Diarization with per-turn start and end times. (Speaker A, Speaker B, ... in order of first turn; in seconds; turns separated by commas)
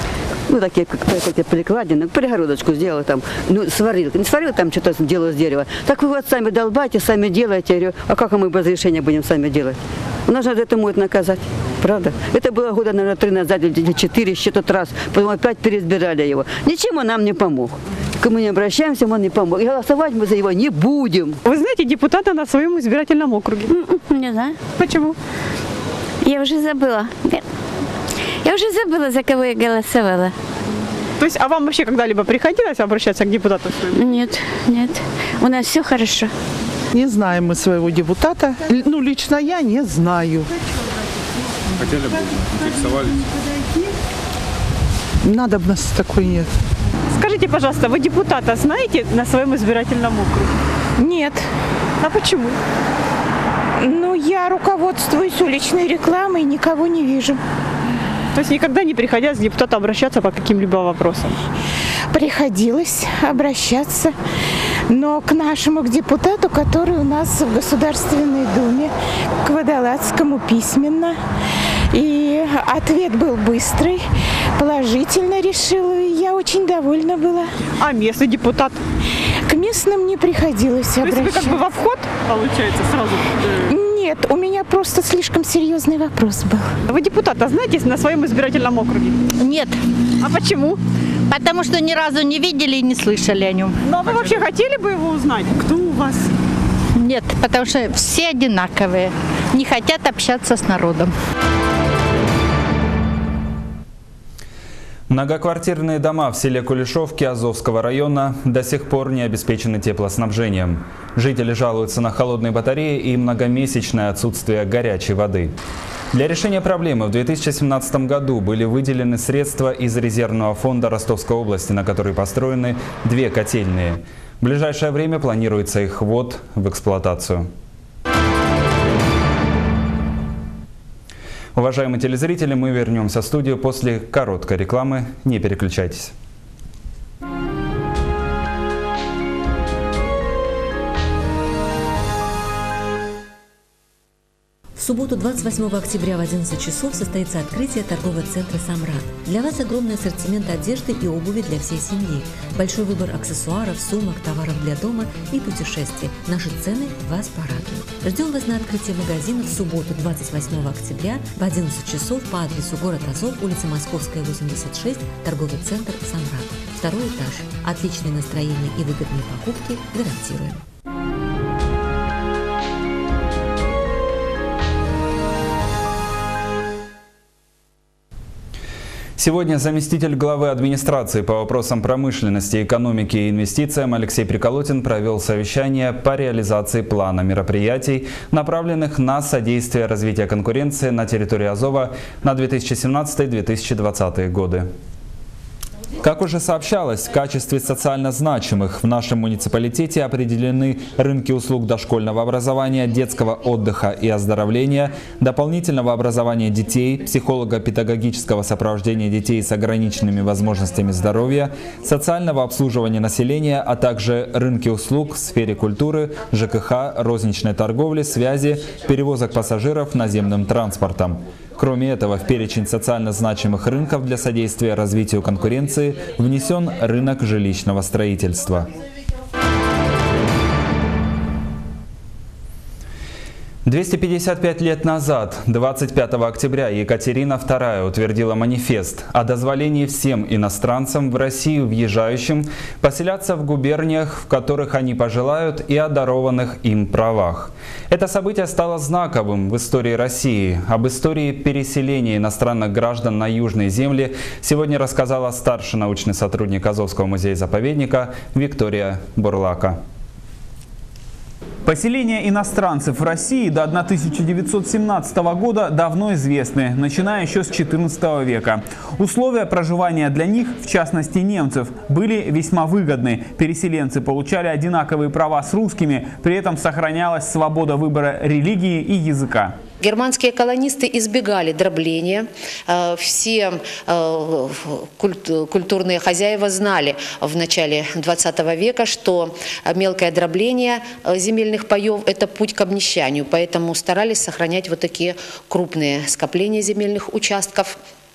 Speaker A: 0.5-21.4, Speaker B: 21.4-23.7, Speaker C: 23.7-24.6, Speaker B: 24.8-25.2, Speaker C: 26.2-27.4, Speaker C: 28.4-30.3, Speaker B: 31.2-34.0, Speaker C: 33.9-36.3, Speaker D: 36.9-40.5, Speaker D: 45.2-46.5, Speaker B: 47.1-50.5, Speaker E: 51.0-51.4, Speaker B: 52.0-52.6, Speaker E: 53.8-57.4, Speaker B: 58.3-61.4, Speaker E: 62.1-64.1, Speaker E: 64.9-68.9, Speaker E: 69.4-71.2, Speaker E: 71.9-77.5, Speaker B: 77.8-78.8, Speaker E: 79.5-81.6, Speaker B: 81.0-83.7, Speaker E: 83.7-86.7, Speaker B: 86.8-89.2, Speaker F: 89.4-89.8, Speaker B: 90.2-90.8, Speaker F: 91.3-93.7, Speaker B: 93.8-96.3, Speaker F: 97.0-101.1, Speaker G: 105.1-115.5, Speaker G: 116.1-127.5, Speaker G: 131.5-136.1, Speaker H: 144.8-170.6, Speaker G: 179.2-194.7, Speaker G: 196.0-228.7, Speaker G: 233.6-259.8, Speaker I: 261.6-279.6, Speaker J: 279.8-297.8